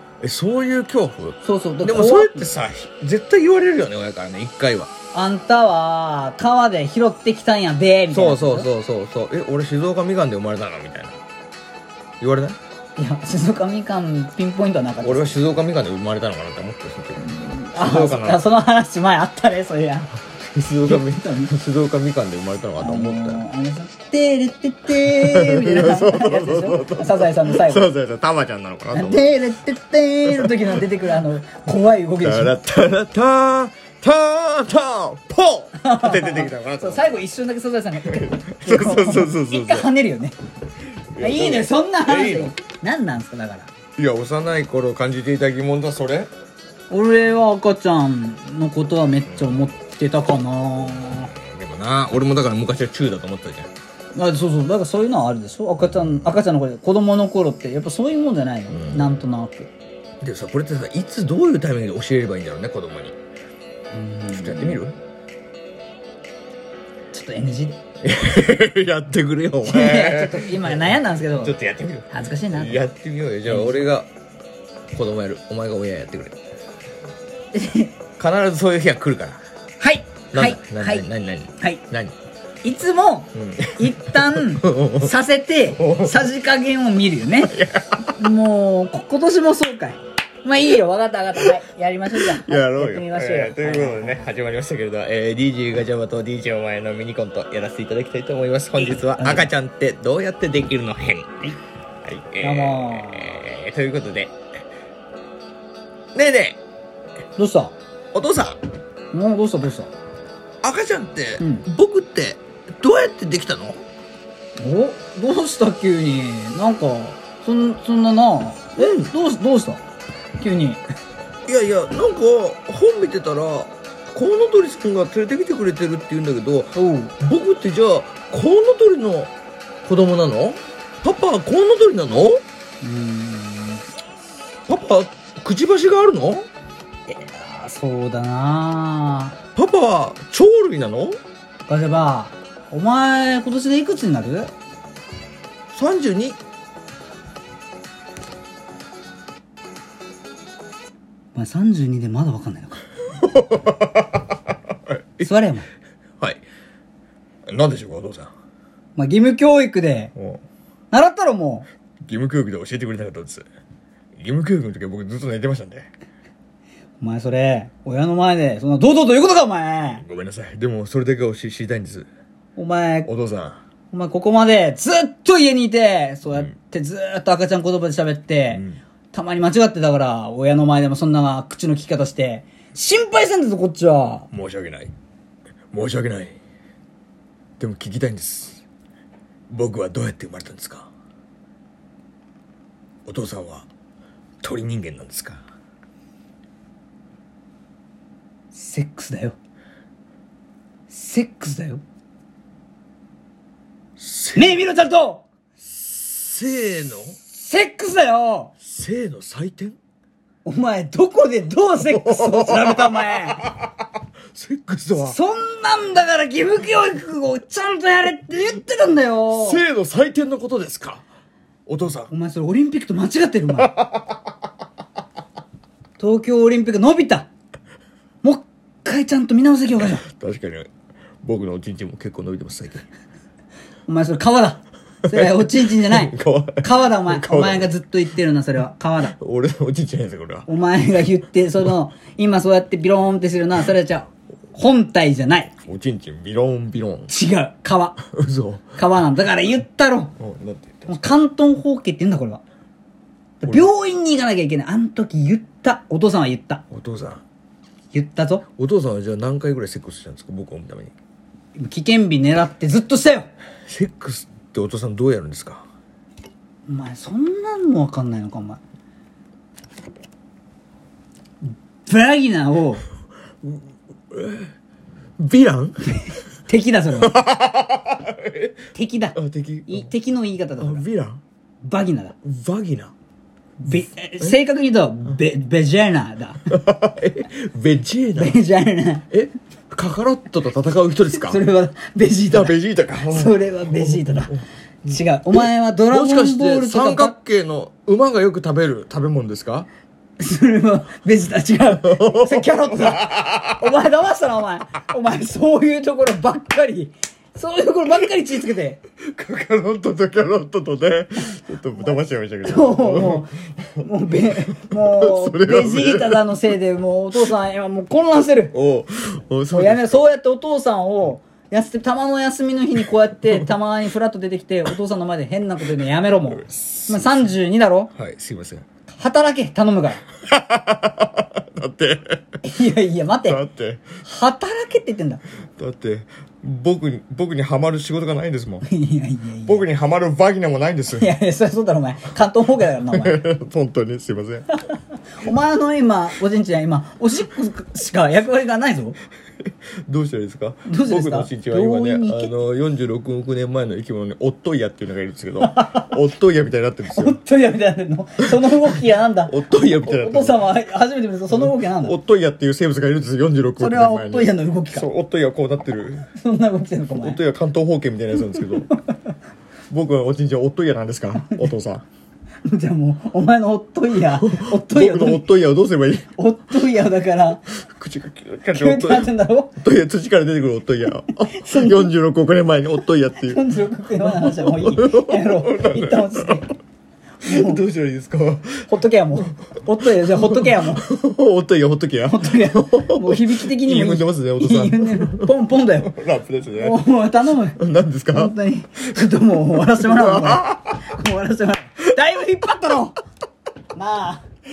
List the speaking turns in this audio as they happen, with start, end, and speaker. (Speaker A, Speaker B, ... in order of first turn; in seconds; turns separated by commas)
Speaker A: 0.2-4.9, Speaker B: 1.4-2.5, Speaker B: 5.1-8.7, Speaker A: 8.1-11.2, Speaker A: 12.2-12.6, Speaker B: 13.0-15.4, Speaker A: 15.0-18.4, Speaker B: 17.2-20.2, Speaker A: 20.4-23.4, Speaker B: 20.8-21.5, Speaker B: 22.8-27.9, Speaker A: 25.1-29.2, Speaker B: 28.9-32.5, Speaker A: 32.2-37.1, Speaker B: 35.8-40.4, Speaker A: 38.1-39.9, Speaker A: 41.1-42.5, Speaker B: 41.2-43.7, Speaker A: 44.0-46.3, Speaker B: 46.9-51.3, Speaker A: 51.0-53.7, Speaker B: 54.1-59.7, Speaker A: 58.7-59.1, Speaker A: 60.2-63.1, Speaker B: 63.9-64.8, Speaker A: 64.3-65.0, Speaker B: 67.1-67.8, Speaker A: 68.0-74.1, Speaker B: 69.6-71.5, Speaker B: 72.1-72.8, Speaker B: 73.5-73.8, Speaker A: 74.9-76.4, Speaker B: 77.5-77.9, Speaker A: 78.2-79.4, Speaker B: 79.8-81.0, Speaker A: 80.3-82.1, Speaker B: 82.6-87.5, Speaker A: 83.3-85.1, Speaker A: 85.8-86.3, Speaker A: 87.5-88.2, Speaker B: 88.2-94.2, Speaker A: 92.2-101.5, Speaker B: 99.2-99.5, Speaker A: 102.0-104.3, Speaker B: 102.4-103.4, Speaker A: 106.1-106.6, Speaker B: 107.4-107.7, Speaker A: 108.1-108.6, Speaker B: 109.1-109.9, Speaker A: 110.6-113.8, Speaker B: 111.4-111.7, Speaker B: 114.6-119.8, Speaker B: 120.4-120.8, Speaker A: 121.5-129.3, Speaker B: 126.7-127.1, Speaker A: 129.8-132.4, Speaker B: 132.8-133.8, Speaker A: 134.7-136.5, Speaker B: 137.1-139.4, Speaker A: 139.6-141.2, Speaker B: 141.7-144.5, Speaker A: 145.7-146.4, Speaker B: 151.3-152.8, Speaker A: 153.2-154.2, Speaker A: 154.9-155.3, Speaker B: 155.2-155.7, Speaker A: 157.5-158.3, Speaker B: 158.9-160.1, Speaker A: 160.2-160.4, Speaker B: 160.9-161.7, Speaker A: 162.0-163.4, Speaker A: 164.2-165.9, Speaker B: 167.0-170.0, Speaker A: 170.0-172.1, Speaker B: 172.6-173.1, Speaker A: 173.1-173.6, Speaker B: 173.9-178.6, Speaker A: 178.5-178.8, Speaker B: 179.1-184.3, Speaker A: 184.3-184.9, Speaker A: 185.7-186.4, Speaker A: 187.6-188.6, Speaker A: 189.5-190.9, Speaker A: 193.1-193.7, Speaker A: 194.4-195.4, Speaker B: 198.5-199.3, Speaker B: 200.9-201.8, Speaker A: 204.0-204.6, Speaker B: 204.3-205.2, Speaker A: 205.6-207.2, Speaker B: 207.3-208.5, Speaker A: 208.6-209.8, Speaker B: 210.4-213.4, Speaker A: 211.9-213.6, Speaker A: 214.3-215.2, Speaker B: 215.0-219.6, Speaker A: 219.3-221.0, Speaker A: 221.7-222.1, Speaker B: 222.1-223.7, Speaker A: 223.7-224.0, Speaker B: 226.0-227.3, Speaker B: 228.2-230.0, Speaker A: 230.0-230.7, Speaker A: 231.2-232.9, Speaker B: 233.9-239.1, Speaker A: 235.1-237.7, Speaker A: 239.1-240.5, Speaker B: 240.5-245.5, Speaker A: 245.6-247.1, Speaker B: 247.1-248.0, Speaker A: 248.1-248.8, Speaker B: 248.8-250.1, Speaker A: 250.2-251.1, Speaker B: 250.9-252.4, Speaker B: 253.4-256.6, Speaker A: 253.4-253.7, Speaker A: 256.7-257.2, Speaker B: 257.9-258.4, Speaker A: 258.6-260.9, Speaker B: 261.6-263.3, Speaker A: 263.7-265.6, Speaker B: 266.7-268.6, Speaker B: 271.9-272.8, Speaker A: 274.1-274.5, Speaker A: 275.2-276.0, Speaker B: 275.9-277.1, Speaker A: 277.0-278.6, Speaker B: 278.7-280.8, Speaker A: 279.1-279.9, Speaker A: 280.6-281.2, Speaker B: 281.6-282.1, Speaker A: 282.2-282.9, Speaker B: 283.6-286.4, Speaker A: 286.5-288.4, Speaker B: 288.2-289.1, Speaker A: 289.1-291.4, Speaker B: 291.1-297.1, Speaker A: 292.3-294.4, Speaker A: 295.3-299.7, Speaker B: 300.2-308.8, Speaker A: 301.9-303.6, Speaker A: 309.0-313.2, Speaker B: 312.4-318.5, Speaker A: 314.7-316.3, Speaker A: 318.5-320.0, Speaker B: 319.5-327.9, Speaker A: 326.4-327.3, Speaker A: 327.9-328.6, Speaker B: 328.9-330.0, Speaker A: 330.2-332.4, Speaker B: 332.4-333.4, Speaker A: 333.2-333.9, Speaker B: 334.0-335.2, Speaker A: 335.6-338.7, Speaker B: 338.6-339.6, Speaker A: 339.4-341.1, Speaker B: 340.9-343.2, Speaker A: 342.9-344.6, Speaker B: 344.7-349.0, Speaker A: 349.9-357.2, Speaker B: 350.7-352.3, Speaker B: 355.4-355.9, Speaker B: 356.9-362.0, Speaker A: 359.3-360.4, Speaker A: 361.3-366.1, Speaker B: 363.6-364.9, Speaker B: 366.2-367.2, Speaker A: 366.9-368.7, Speaker B: 368.7-369.0, Speaker A: 369.7-371.8, Speaker B: 371.2-371.5, Speaker B: 372.4-375.3, Speaker A: 374.1-376.1, Speaker B: 376.1-377.4, Speaker A: 377.5-383.4, Speaker B: 378.5-379.6, Speaker B: 381.3-381.9, Speaker B: 383.2-386.5, Speaker A: 384.0-386.4, Speaker B: 387.2-387.6, Speaker A: 387.2-395.3, Speaker B: 388.7-390.8, Speaker B: 392.1-395.9, Speaker A: 395.9-396.8, Speaker B: 396.6-397.6, Speaker A: 397.6-398.3, Speaker B: 398.1-402.9, Speaker A: 399.8-400.8, Speaker B: 403.7-404.2